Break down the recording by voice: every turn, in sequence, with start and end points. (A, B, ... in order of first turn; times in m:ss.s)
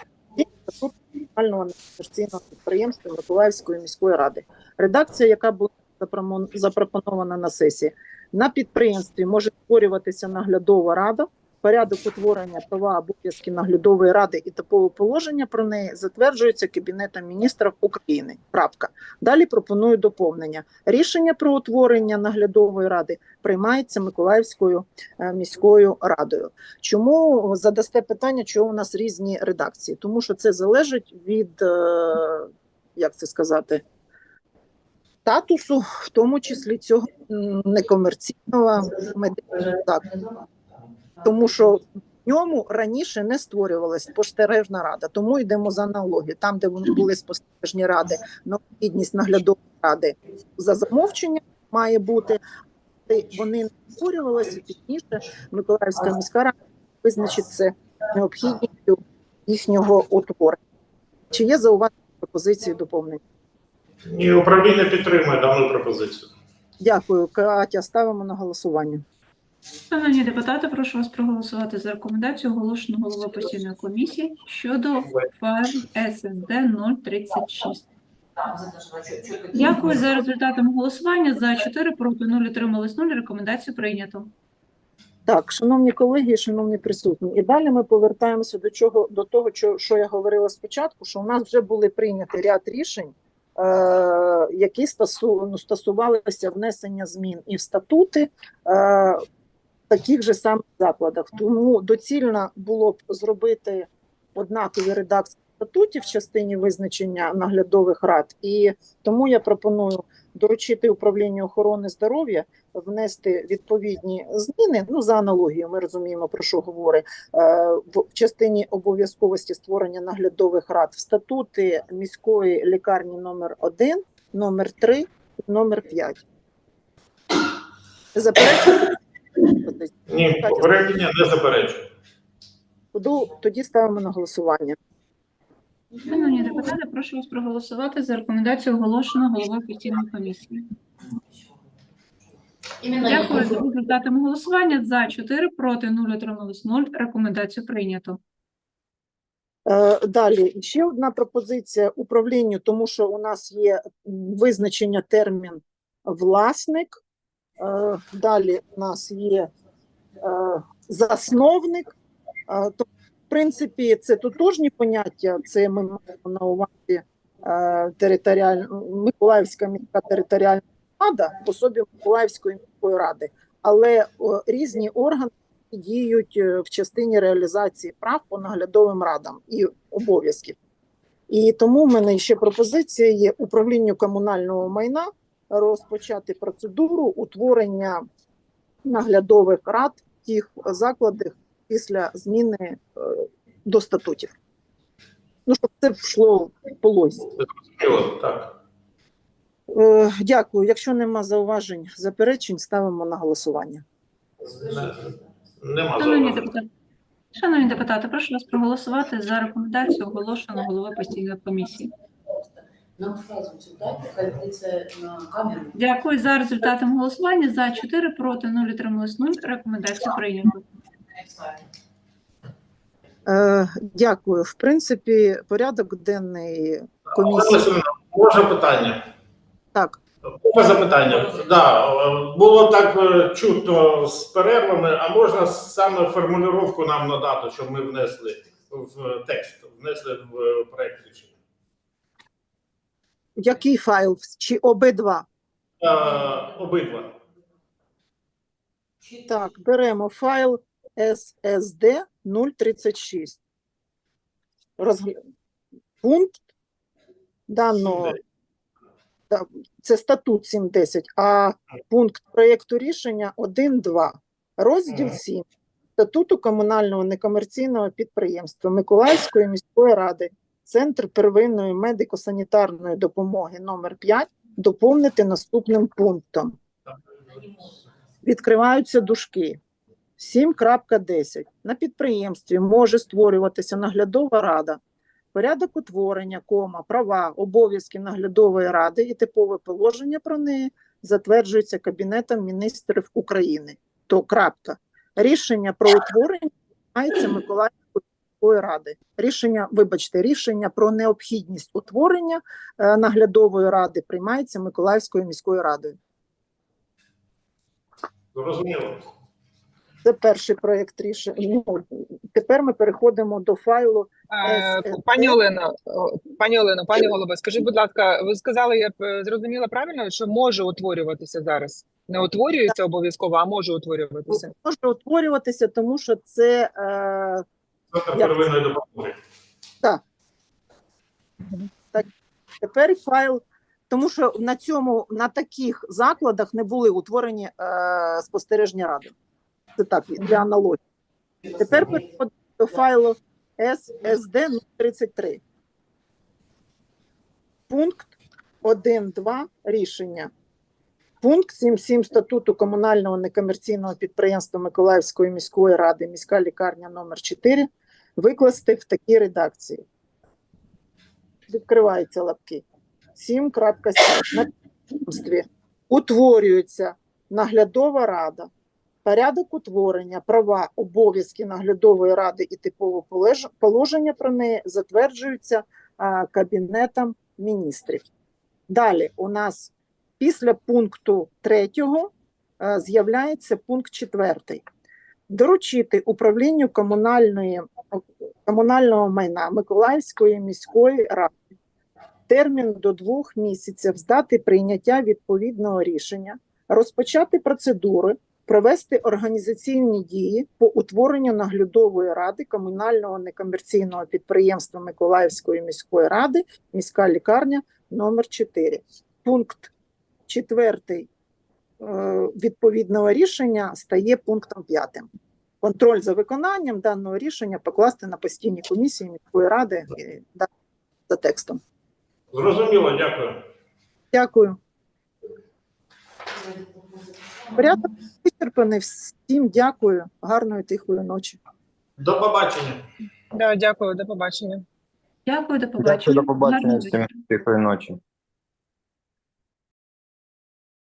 0:00.3-0:33.8 A
0:35.2-0:40.1 A
0:41.2-0:52.4 A
0:53.1-1:00.6 A
1:01.3-1:03.2 A
1:04.1-1:06.3 B
1:06.8-1:09.0 A
1:09.9-1:17.8 C
1:15.0-1:15.3 B
1:18.8-1:19.5 D
1:19.5-1:24.3 C
1:25.3-1:39.2 A
1:39.9-2:06.2 A
2:08.1-2:08.8 A
2:09.6-2:10.8 A
2:10.1-2:11.9 B
2:12.9-2:14.8 A
2:16.0-2:20.7 C
2:23.0-2:28.2 C
2:29.6-2:37.0 A
2:37.6-2:39.5 A
2:40.2-2:41.9 A
2:42.5-3:00.6 A
3:01.3-3:08.0 A
3:08.8-3:14.3 A
3:15.5-3:17.2 A
3:17.4-3:18.5 B
3:19.7-3:23.8 A
3:24.4-3:26.5 B
3:26.0-3:26.7 C
3:27.3-3:31.9 C
3:33.0-3:35.6 D
3:35.7-3:40.6 C
3:43.2-3:47.6 A
3:47.2-3:49.0 B
3:50.4-4:01.3 B
4:03.4-4:05.2 A
4:05.8-4:07.1 B
4:09.2-4:13.4 A
4:14.8-4:15.2 A
4:16.0-4:16.4 A
4:17.5-4:18.2 A
4:17.9-4:18.1 B
4:19.3-4:25.4 A
4:24.9-4:25.2 B
4:26.0-4:36.5 A
4:38.2-4:39.6 A
4:40.2-4:44.8 A
4:45.3-5:06.0 A
5:08.3-5:09.1 B
5:10.0-5:15.4 A
5:14.3-5:24.4 E
5:24.3-5:27.4 A
5:27.9-5:29.2 B
5:32.6-5:39.1 A
5:39.8-5:40.8 A
5:41.6-5:45.4 A
5:47.7-5:48.1 A
5:48.6-5:50.3 A
5:51.2-5:59.8 A
6:01.5-6:02.6 A
6:03.1-6:04.5 A
6:05.0-6:08.5 A
6:09.0-6:18.1 A
6:18.7-6:24.6 A
6:25.3-6:31.3 A
6:32.3-6:49.7 A
6:50.3-6:51.1 A
6:51.8-6:55.1 A
6:55.6-7:00.5 A
7:01.1-7:01.6 A
7:02.3-7:03.4 B
7:04.1-7:04.6 A
7:07.6-7:11.4 A
7:12.0-7:12.8 B
7:13.3-7:14.6 E
7:15.2-7:17.3 C
7:15.8-7:18.0 F